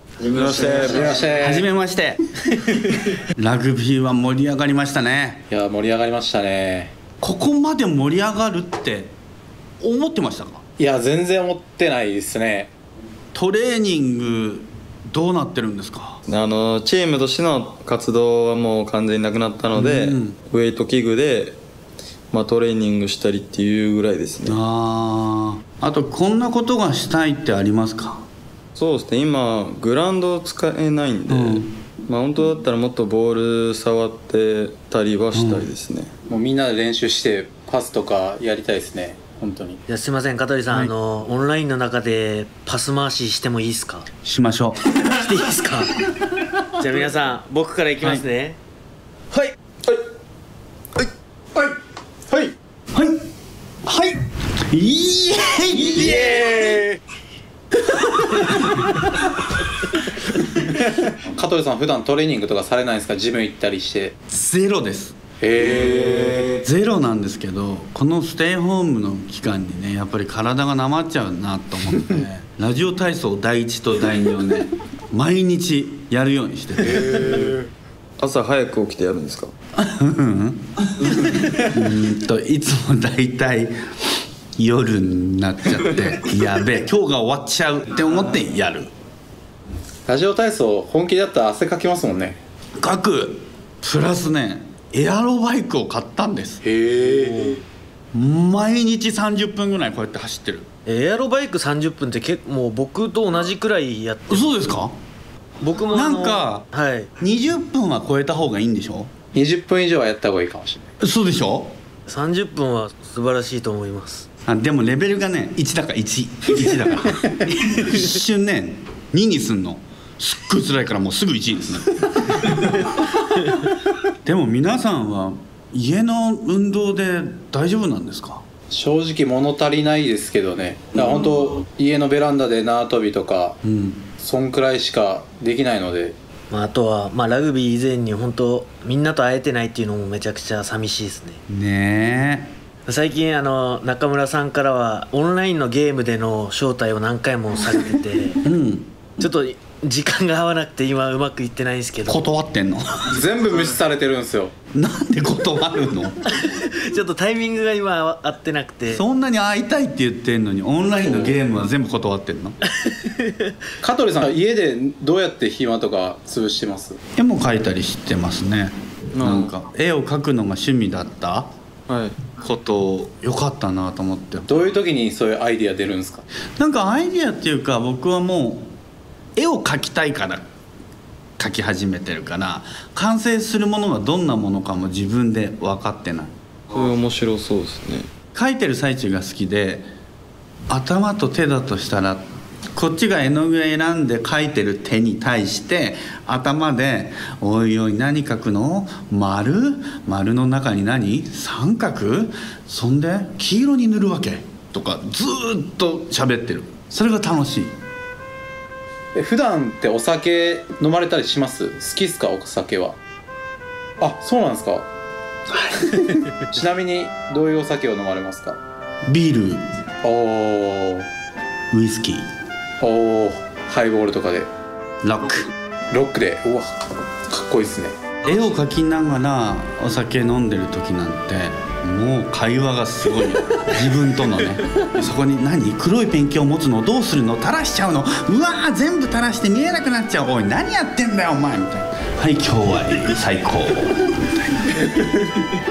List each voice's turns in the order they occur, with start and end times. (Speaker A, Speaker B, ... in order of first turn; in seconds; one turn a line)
Speaker A: 0.2-1.3
Speaker B: 0.3-1.7
Speaker C: 1.3-2.2
Speaker C: 3.4-5.4
Speaker B: 5.5-6.9
Speaker C: 7.2-9.1
Speaker C: 9.8-10.6
Speaker B: 10.8-12.7
Speaker C: 13.3-16.2
Speaker A: 16.2-21.6
Speaker C: 19.7-20.4
Speaker A: 22.3-24.6
Speaker C: 24.4-28.2
Speaker A: 28.7-36.1
Speaker C: 31.3-31.7
Speaker C: 35.3-35.7
Speaker B: 36.3-39.8
Speaker D: 39.9-44.1
Speaker C: 44.2-44.8
Speaker D: 45.0-46.0
Speaker D: 46.8-48.6
Speaker C: 53.8-56.5
Speaker B: 55.8-57.0
Speaker C: 58.0-59.0
Speaker B: 60.7-64.2
Speaker C: 64.3-65.2
Speaker B: 65.4-66.6
Speaker C: 66.5-77.5
Speaker B: 76.9-77.5
Speaker A: 78.2-79.5
Speaker C: 79.8-83.7
Speaker C: 84.6-88.9
Speaker B: 90.1-92.4
Speaker C: 92.8-96.6
Speaker B: 96.6-97.6
Speaker C: 98.1-100.7
Speaker D: 100.8-104.6
Speaker C: 104.3-104.9
Speaker D: 105.6-107.1
Speaker C: 105.9-106.7
Speaker C: 107.2-109.1
Speaker B: 109.3-110.9
Speaker C: 111.0-111.7
Speaker D: 112.0-114.3
Speaker C: 114.5-122.6
Speaker C: 124.2-128.4
Speaker B: 128.7-133.6
Speaker C: 133.6-134.1
Speaker B: 134.2-136.2
Speaker D: 136.5-141.4
Speaker C: 141.5-142.5
Speaker D: 142.8-148.4
Speaker C: 148.4-149.3
Speaker D: 149.2-152.2
Speaker C: 152.1-153.1
Speaker B: 153.1-154.5
Speaker C: 154.7-156.2
Speaker D: 156.3-159.0
Speaker C: 158.9-162.6
Speaker B: 161.0-161.4
Speaker D: 162.8-163.5
Speaker B: 163.8-167.0
Speaker C: 167.2-171.5
Speaker A: 169.1-169.6
Speaker A: 171.9-172.2
Speaker C: 172.3-174.5
Speaker B: 174.5-176.2
Speaker C: 176.6-178.7
Speaker C: 179.3-180.4
Speaker C: 181.4-186.3
Speaker A: 186.7-188.1
Speaker C: 188.3-189.9
Speaker C: 190.7-207.7
Speaker B: 209.1-213.0
Speaker B: 214.0-214.9
Speaker B: 215.8-218.6
Speaker C: 219.1-219.6
Speaker B: 220.0-221.1
Speaker C: 221.7-222.2
Speaker B: 222.8-224.5
Speaker C: 225.0-225.5
Speaker B: 225.9-226.8
Speaker B: 227.3-228.1
Speaker C: 228.2-245.3